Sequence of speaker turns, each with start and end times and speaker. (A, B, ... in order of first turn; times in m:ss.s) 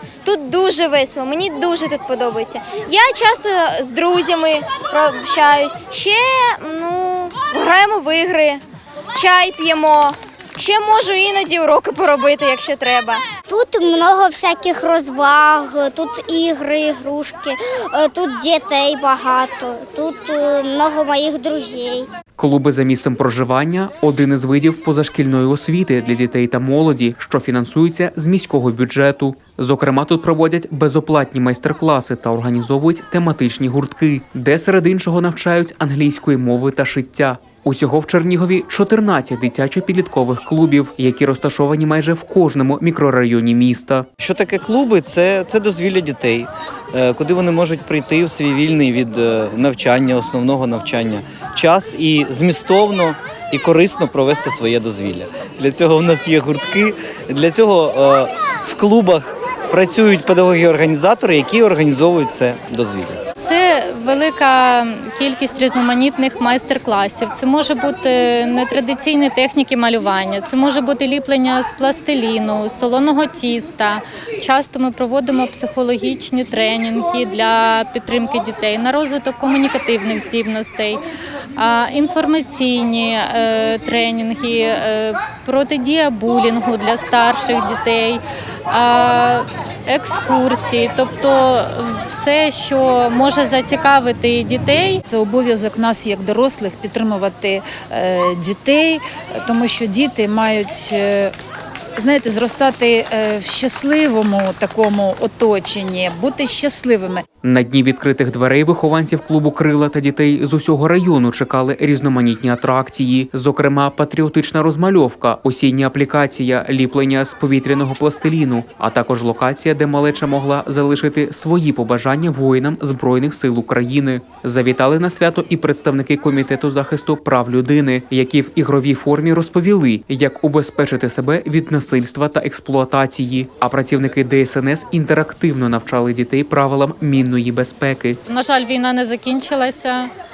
0:00.2-0:08.6 A
0:09.1-0:13.2 A
0:13.5-0:22.1 B
0:22.4-0:44.1 C
0:44.2-1:03.2 D
1:03.4-1:21.0 E
1:21.6-1:35.0 E
1:35.0-1:41.3 F
1:42.0-1:47.2 F
1:47.4-2:18.2 C
2:18.3-2:20.1 E